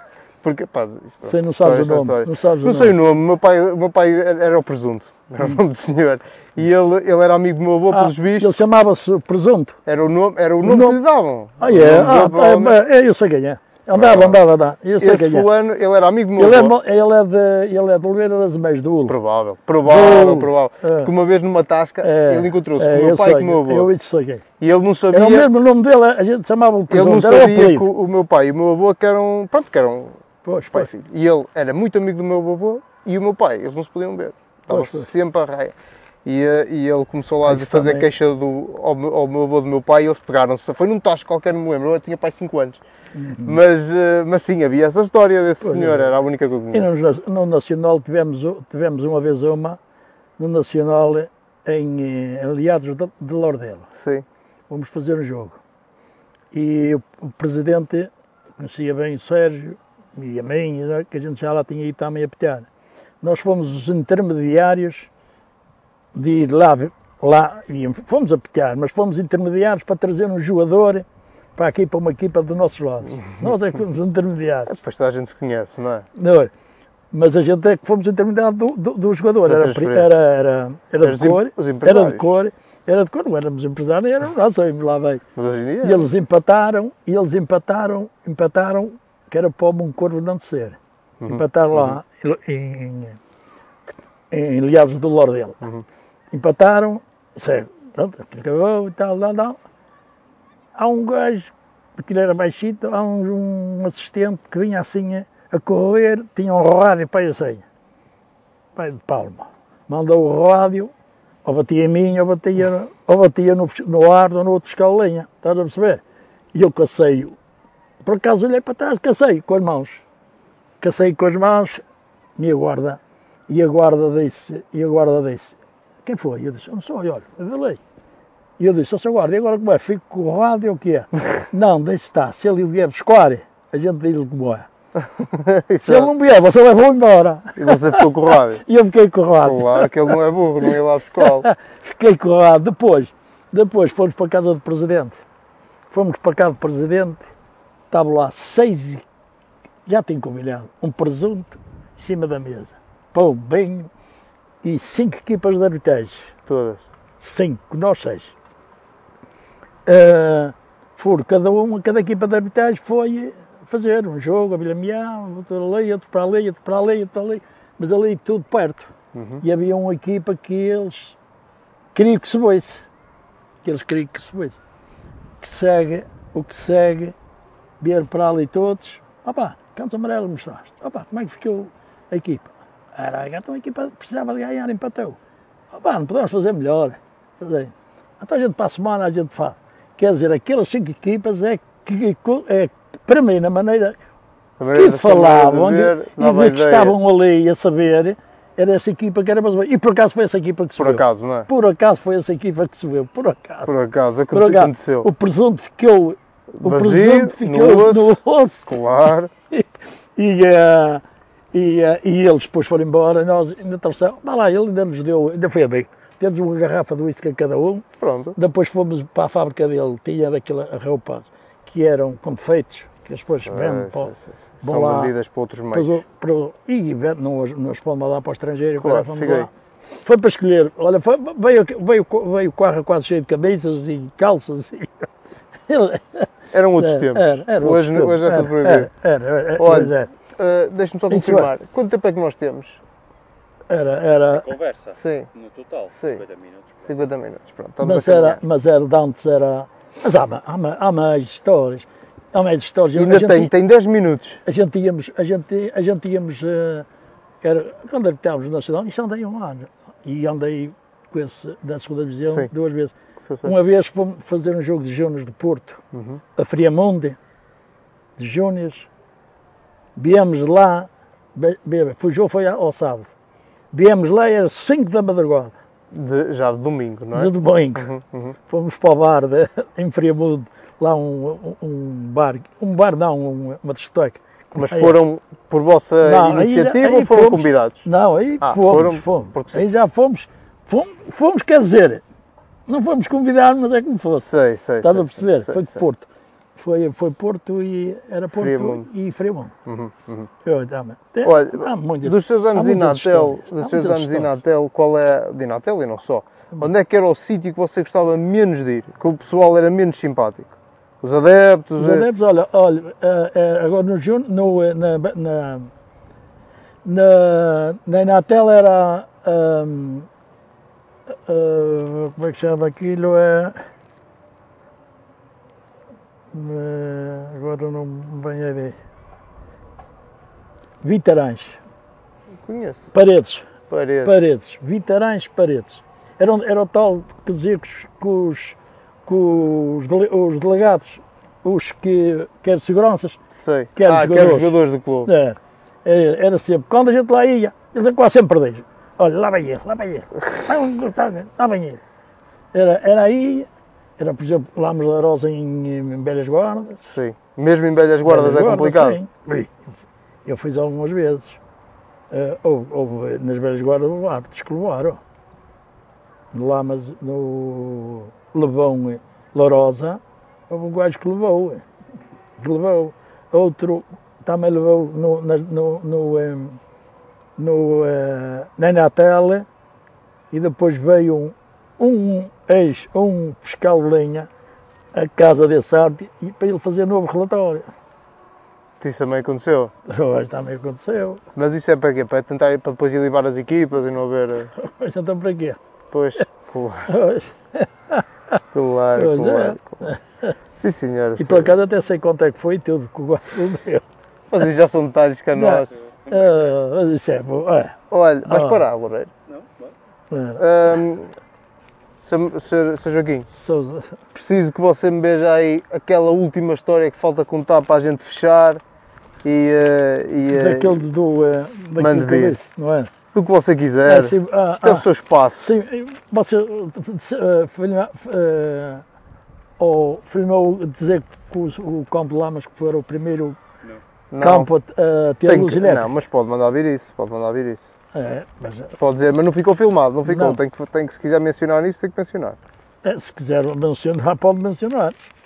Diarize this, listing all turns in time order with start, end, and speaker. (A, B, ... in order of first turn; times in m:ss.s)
0:00.4-0:08.5 A
0:01.2-0:03.0 B
0:07.9-0:09.8 B
0:09.8-0:12.8 A
0:10.6-0:11.0 B
0:11.6-0:15.5 B
0:13.9-0:14.4 A
0:15.0-0:16.7 A
0:16.4-0:19.2 B
0:19.1-0:23.9 A
0:19.8-0:21.1 B
0:22.0-0:24.4 B
0:24.6-0:25.5 A
0:25.1-0:27.8 B
0:26.9-0:30.2 A
0:30.4-0:30.9 B
0:30.7-0:42.8 A
0:34.7-0:35.1 B
0:37.4-0:38.1 B
0:43.1-0:43.6 B
0:43.4-0:47.0 A
0:45.6-0:46.1 B
0:46.7-0:49.8 B
0:50.4-0:53.9 B
0:53.9-0:54.2 A
0:54.7-0:55.6 B
0:56.5-1:02.7 B
1:03.2-1:05.1 B
1:06.1-1:14.8 B
1:14.7-1:16.0 A
1:16.1-1:16.5 B
1:17.1-1:25.2 B
1:19.4-1:20.2 A
1:21.0-1:22.3 A
1:25.3-1:26.1 A
1:25.8-1:33.2 B
1:31.2-1:32.0 A
1:34.3-1:35.6 B
1:36.3-1:39.6 B
1:40.7-1:47.6 B
1:48.8-1:50.9 B
1:51.4-1:56.0 B
1:56.5-1:57.4 B
1:58.0-2:00.0 B
2:00.8-2:01.8 B
2:02.4-2:07.8 B
2:08.6-2:14.7 B
2:15.2-2:16.1 A
2:15.8-2:20.1 B
2:17.6-2:18.6 A
2:19.4-2:21.5 A
2:21.2-2:25.1 B
2:25.9-2:27.2 B
2:27.9-2:29.0 B
2:29.8-2:33.9 B
2:34.6-2:36.3 B
2:36.5-2:36.8 A
2:37.2-2:38.3 B
2:39.8-2:51.2 B
2:49.1-2:49.4 A
2:51.9-2:52.8 B
2:53.6-2:54.6 B
2:55.4-2:57.1 B
2:57.8-3:05.2 B
3:05.7-3:14.0 B
3:14.6-3:17.0 A
3:14.7-3:23.7 B
3:20.8-3:21.5 A
3:23.6-3:25.1 A
3:24.3-3:28.7 B
3:26.6-3:29.3 A
3:29.5-3:31.0 B
3:31.5-3:45.1 B
3:38.0-3:38.4 A
3:43.4-3:45.9 A
3:45.7-3:49.5 B
3:48.8-3:49.5 A
3:50.0-3:55.1 B
3:55.7-4:00.1 B
3:56.5-3:58.9 A
3:59.6-4:02.8 A
4:01.1-4:01.5 B
4:03.7-4:04.5 B
4:04.3-4:07.0 C
4:05.0-4:05.3 A
4:06.0-4:06.2 A
4:06.8-4:08.4 A
4:07.8-4:13.5 B
4:12.9-4:14.4 A
4:14.4-4:16.8 B
4:17.4-4:22.9 B
4:23.2-4:23.5 A
4:23.4-4:25.8 B
4:25.9-4:26.2 A
4:26.4-4:27.2 B
4:28.2-4:28.9 B
4:30.0-4:33.1 B
4:33.7-4:35.6 B
4:35.9-4:38.4 A
4:37.1-4:37.9 B
4:38.5-4:45.0 B
4:44.5-4:47.8 A
4:46.0-4:52.0 B
4:48.4-4:49.6 A
4:52.7-4:54.3 B
4:54.2-4:55.8 A
4:54.8-4:59.5 B
4:58.3-4:58.9 A
4:59.6-5:00.3 A
5:00.4-5:04.4 B
5:01.2-5:12.1 A
5:11.8-5:15.7 B
5:16.8-5:20.1 B
5:21.2-5:23.6 B
5:26.3-5:28.8 B
5:30.8-5:31.6 B
5:32.4-5:32.9 A
5:32.9-5:33.5 B
5:33.7-5:34.2 A
5:34.0-5:43.2 B
5:43.3-5:45.1 A
5:43.8-5:51.8 B
5:52.5-5:56.8 B
5:56.8-5:59.0 A
5:58.0-5:59.5 B
6:00.2-6:01.4 B
6:02.1-6:05.0 B
6:06.3-6:11.6 B
6:12.4-6:16.6 B
6:17.4-6:19.4 B
6:20.3-6:24.3 B
6:24.9-6:27.7 B
6:28.8-6:29.7 A
6:29.8-6:31.2 B
6:31.3-6:34.5 A
6:34.6-6:35.6 B
6:35.9-6:36.9 A
6:36.9-6:38.4 B
6:38.5-6:39.9 A
6:38.9-6:40.3 B
6:40.6-6:41.5 A
6:41.2-6:43.8 B
6:44.3-6:45.7 A
6:45.3-6:48.6 B
6:46.0-6:46.3 C
6:47.9-6:49.1 A
6:49.3-6:49.7 C
6:50.1-6:50.4 B
6:50.4-6:51.1 A
6:52.0-6:53.3 A
6:53.3-6:54.0 B
6:54.1-6:58.6 A
6:59.2-7:00.8 A
7:00.3-7:02.9 B
7:01.8-7:02.4 A
7:03.1-7:05.5 A
7:03.8-7:08.8 B
7:09.6-7:13.4 B
7:14.1-7:14.5 A
7:14.2-7:15.9 B
7:15.2-7:17.7 A
7:17.9-7:18.7 B
7:18.8-7:22.4 A
7:20.0-7:20.4 B
7:22.8-7:25.0 B